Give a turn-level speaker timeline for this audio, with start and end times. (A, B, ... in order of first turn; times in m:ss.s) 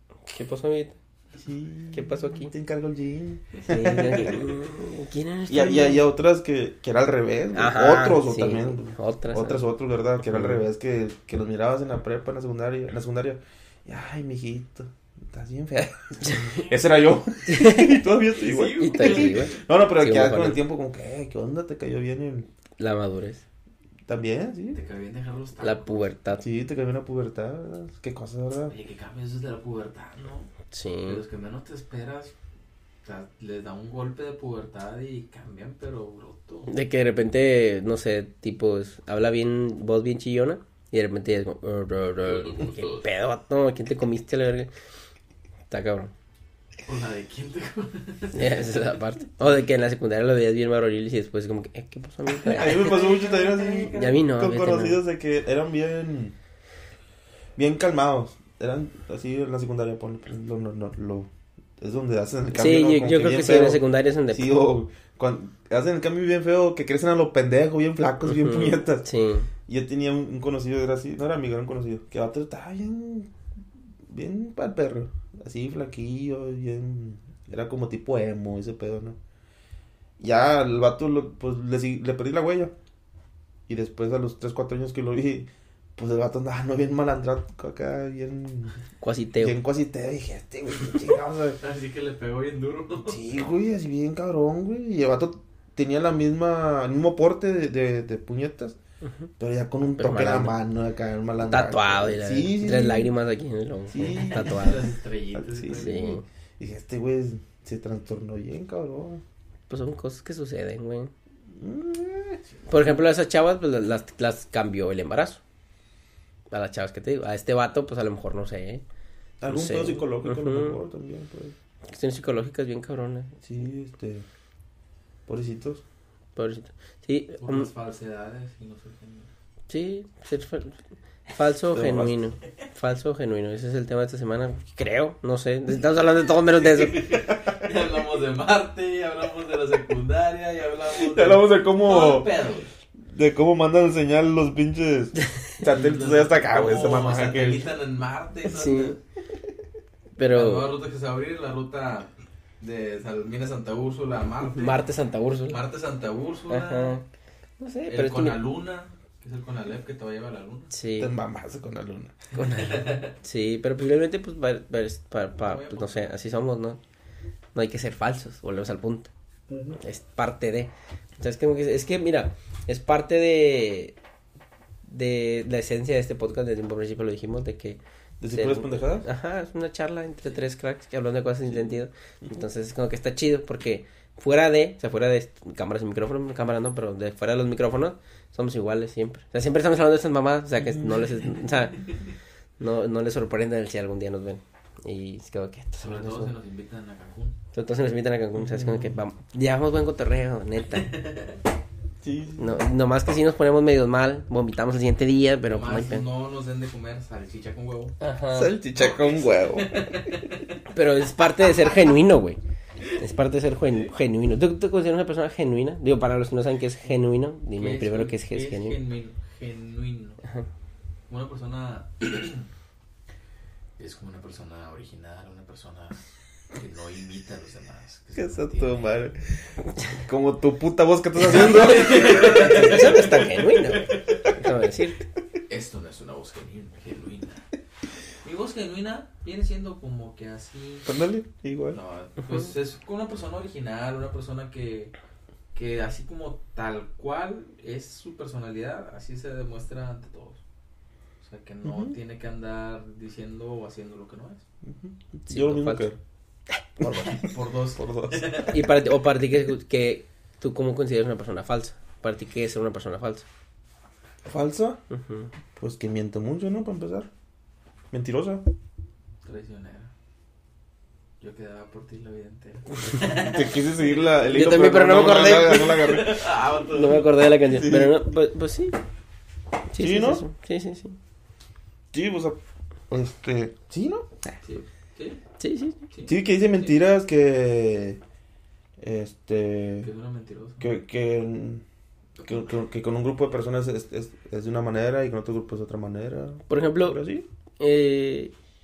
0:00.3-0:01.0 A
0:01.4-0:04.5 B
0:01.9-0:02.5 A
0:03.6-0:06.0 A
0:04.0-0:04.3 C
0:05.5-0:22.5 B
0:07.5-0:09.6 A
0:10.3-0:10.6 A
0:16.2-0:16.6 A
0:17.5-0:18.0 A
0:18.4-0:19.5 C
0:18.8-0:20.6 A
0:22.8-0:23.4 A
0:24.1-0:24.8 B
0:24.7-0:26.1 C
0:25.6-0:26.4 A
0:26.4-0:28.7 B
0:28.7-0:30.5 C
0:30.7-0:31.2 A
0:31.0-0:32.3 C
0:33.0-0:36.7 C
0:36.7-0:44.7 A
0:42.3-0:43.0 C
0:45.7-0:46.1 A
0:46.8-0:48.7 C
0:48.3-0:52.9 A
0:52.4-0:56.4 B
0:52.5-0:54.2 C
0:53.9-0:55.0 A
0:57.6-1:09.1 B
1:02.5-1:04.6 A
1:08.2-1:09.5 A
1:09.7-1:13.3 B
1:14.1-1:19.2 B
1:20.2-1:22.7 B
1:23.7-1:28.8 B
1:29.0-1:29.6 A
1:29.4-1:31.6 B
1:31.6-1:33.2 C
1:33.1-1:38.8 B
1:39.4-1:43.1 B
1:40.0-1:40.6 A
1:41.4-1:44.9 A
1:43.9-1:44.8 B
1:44.0-1:46.1 C
1:45.3-1:49.2 B
1:45.7-1:46.2 A
1:49.7-1:51.1 A
1:51.6-1:52.4 B
1:52.7-1:55.4 A
1:56.5-1:58.8 A
1:59.4-2:01.6 B
1:59.5-2:00.8 A
2:01.9-2:03.4 A
2:03.4-2:04.3 B
2:05.3-2:05.8 B
2:06.4-2:07.7 A
2:07.4-2:09.3 C
2:09.7-2:17.1 A
2:11.7-2:12.2 B
2:16.6-2:22.7 C
2:20.9-2:22.4 B
2:23.1-2:27.8 B
2:25.6-2:29.0 C
2:28.5-2:29.0 A
2:30.2-2:30.7 A
2:30.3-2:34.8 C
2:34.4-2:35.6 A
2:35.5-2:37.0 C
2:36.5-2:37.0 A
2:37.6-2:38.4 A
2:37.9-2:40.7 C
2:40.7-2:41.1 A
2:41.0-2:42.2 B
2:42.3-2:46.8 A
2:42.4-2:43.1 C
2:45.4-2:46.1 C
2:47.6-2:49.1 A
2:49.8-2:54.0 A
2:54.9-3:11.9 A
2:58.2-2:59.1 B
3:01.5-3:01.7 B
3:10.6-3:11.2 B
3:12.6-3:16.3 A
3:15.8-3:17.4 C
3:17.5-3:20.9 A
3:18.4-3:19.0 B
3:20.8-3:21.4 C
3:22.0-3:22.7 B
3:22.4-3:26.0 A
3:25.5-3:28.0 C
3:28.0-3:28.6 A
3:28.3-3:29.8 B
3:28.8-3:30.6 C
3:30.7-3:32.4 A
3:31.5-3:31.8 C
3:32.9-3:38.8 A
3:33.7-3:33.9 C
3:37.6-3:40.2 C
3:41.1-3:42.5 C
3:43.8-3:46.0 C
3:46.5-3:48.9 C
3:48.2-3:49.2 B
3:49.9-3:52.9 B
3:51.2-3:54.1 C
3:51.9-3:55.0 A
3:55.5-3:57.4 C
3:58.2-4:00.9 C
4:00.9-4:01.8 B
4:01.7-4:04.9 C
4:05.5-4:10.4 C
4:11.2-4:14.4 C
4:11.6-4:11.9 B
4:14.6-4:16.0 B
4:15.3-4:15.9 A
4:16.8-4:18.5 B
4:16.8-4:17.2 A
4:17.1-4:18.6 C
4:18.5-4:23.2 A
4:24.2-4:24.8 B
4:24.9-4:25.3 A
4:25.6-4:27.1 B
4:27.9-4:28.4 B
4:29.2-4:29.9 C
4:31.2-4:34.1 C
4:32.9-4:36.2 B
4:34.3-4:35.9 A
4:35.2-4:37.1 C
4:36.7-4:38.8 A
4:37.5-4:38.0 B
4:39.7-4:41.0 A
4:39.8-4:40.2 B
4:41.9-4:42.4 B
4:42.9-4:44.3 B
4:44.4-4:45.2 C
4:45.4-4:45.8 A
4:45.9-4:46.8 C
4:46.0-4:48.0 B
4:48.8-4:49.9 B
4:49.8-4:50.7 C
4:50.6-4:51.6 B
4:52.2-4:52.5 C
4:52.2-4:57.2 B
4:56.5-4:57.0 A
4:57.6-4:58.3 A